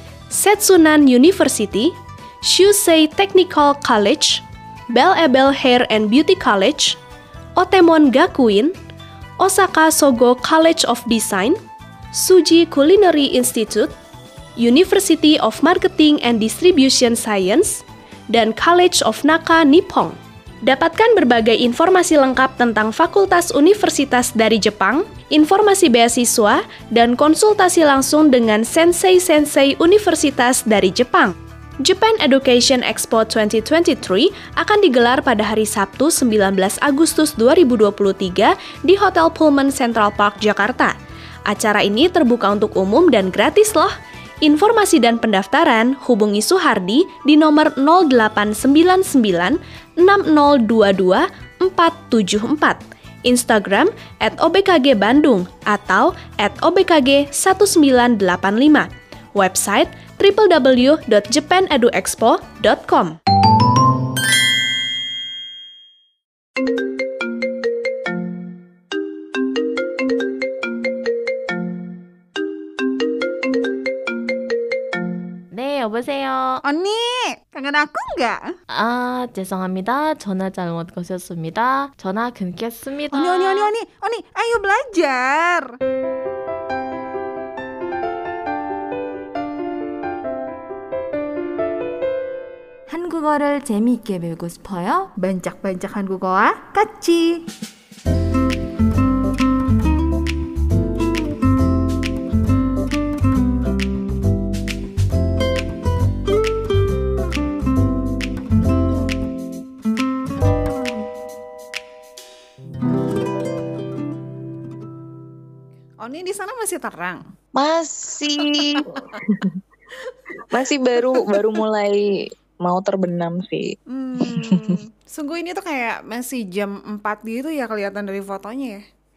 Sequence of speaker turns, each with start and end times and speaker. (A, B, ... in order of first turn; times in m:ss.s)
0:00.3-0:07.0 A
0:07.6-0:08.7 A
0:09.4-0:11.6 A
0:12.1-0:13.9 A
0:14.6-0:40.9 A
0:41.5-1:03.2 A
1:15.5-1:16.6 B
1:16.6-1:18.5 C
1:18.7-1:23.7 B
1:23.1-1:25.8 C
1:32.9-1:35.1 D
1:35.2-1:37.4 C
1:56.0-1:57.3 C
1:57.5-1:59.6 E
1:58.4-1:59.2 C
2:00.5-2:03.7 E
2:01.0-2:01.6 C
2:03.9-2:08.8 C
2:04.3-2:04.7 E